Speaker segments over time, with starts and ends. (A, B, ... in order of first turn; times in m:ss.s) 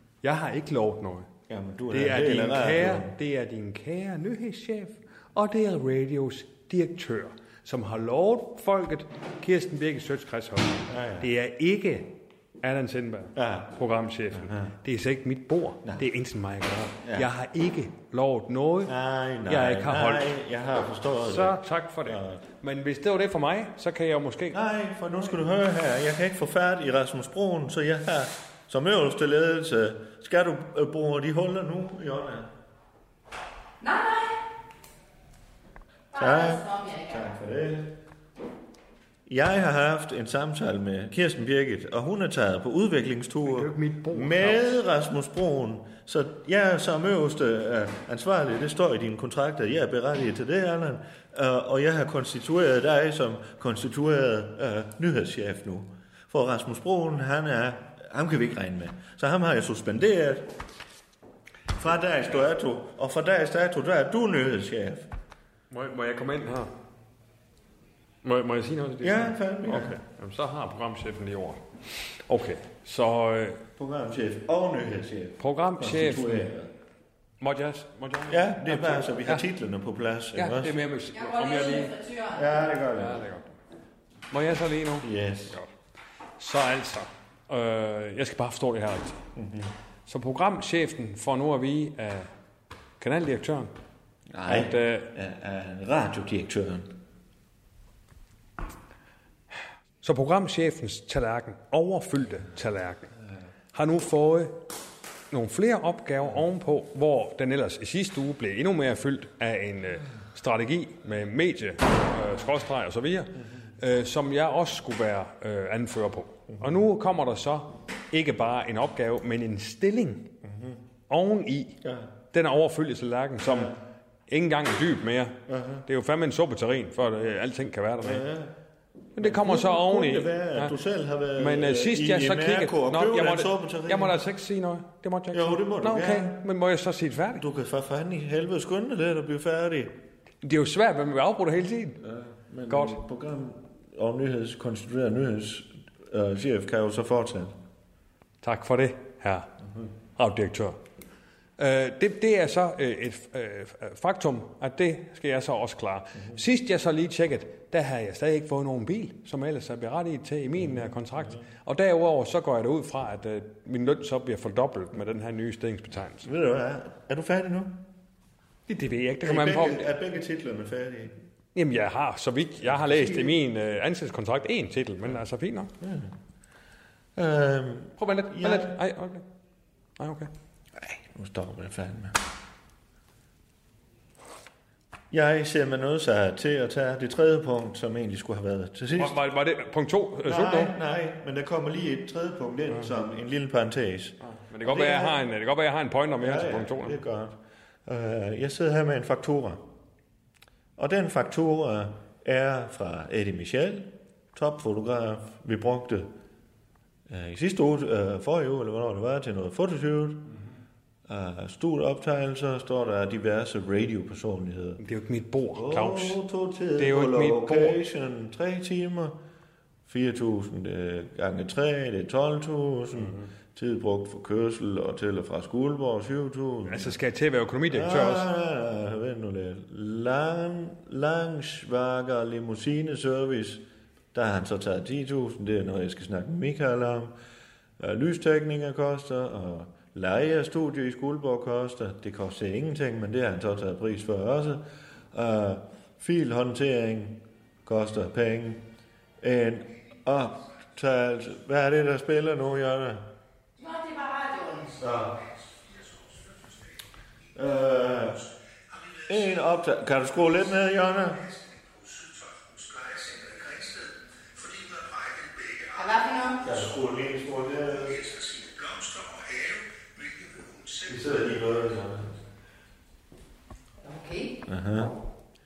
0:00.2-0:01.3 A
0:01.5-0:03.1 B
0:01.9-0:18.9 A
0:10.9-0:11.3 B
0:13.4-0:13.7 B
0:14.3-0:14.7 B
0:17.0-0:17.3 B
0:18.8-0:22.4 B
0:19.5-0:20.3 A
0:21.2-0:24.6 A
0:24.5-0:32.5 B
0:33.8-0:34.4 C
0:36.1-0:37.4 C
0:36.2-0:37.9 B
0:39.3-1:00.5 B
0:43.4-0:44.8 A
1:01.8-1:05.1 B
1:05.7-1:06.7 A
1:08.2-1:13.6 A
1:09.0-1:10.0 B
1:13.8-1:16.7 B
1:15.4-1:16.4 A
1:17.4-1:19.4 A
1:18.3-1:20.7 B
1:20.3-1:22.0 A
1:21.1-1:22.6 C
1:22.3-1:23.2 B
1:23.0-1:23.6 A
1:24.3-1:25.7 A
1:25.0-1:25.6 B
1:26.4-1:29.2 A
1:29.4-1:29.7 B
1:30.1-1:32.3 A
1:33.0-1:33.7 A
1:34.3-1:37.0 B
1:34.5-1:35.1 A
1:40.0-1:43.1 A
1:43.7-1:44.6 A
1:45.3-2:00.3 A
1:56.5-1:56.8 B
2:00.4-2:00.8 B
2:01.1-2:01.8 A
2:01.8-2:02.1 B
2:02.3-2:03.8 A
2:03.4-2:03.8 B
2:04.3-2:08.2 A
2:05.5-2:05.9 B
2:08.0-2:08.5 B
2:09.2-2:10.7 A
2:09.2-2:14.2 B
2:11.4-2:17.4 A
2:15.3-2:16.4 B
2:17.4-2:20.0 B
2:20.4-2:22.0 A
2:22.0-2:27.6 B
2:22.7-2:23.0 A
2:28.4-2:29.5 A
2:30.2-2:30.8 A
2:31.6-2:46.3 A
2:40.6-2:41.4 B
2:46.2-2:47.8 B
2:48.7-2:49.8 A
2:49.2-2:51.2 B
2:51.6-2:55.7 A
2:52.6-2:53.4 B
2:55.8-2:56.1 B
2:57.2-2:58.8 B
2:58.0-2:59.2 A
3:00.0-3:00.3 A
3:00.8-3:02.2 B
3:05.1-3:09.2 B
3:08.9-3:10.7 A
3:10.2-3:15.2 B
3:14.2-3:17.0 A
3:16.2-3:19.7 B
3:20.8-3:26.1 B
3:27.1-3:30.3 B
3:31.1-3:34.8 B
3:34.8-3:36.2 A
3:35.5-3:39.2 B
3:36.8-3:37.8 A
3:39.9-3:47.0 B
3:43.0-3:43.3 A
3:46.7-3:48.3 A
3:47.7-3:57.1 B
3:57.8-4:08.6 B
4:09.2-4:13.0 B
4:13.6-4:14.8 C
4:14.8-4:15.2 B
4:17.3-4:18.3 B
4:18.9-4:25.8 B
4:25.8-4:26.5 C
4:26.4-4:32.1 B
4:33.8-4:34.4 C
4:34.5-4:35.0 B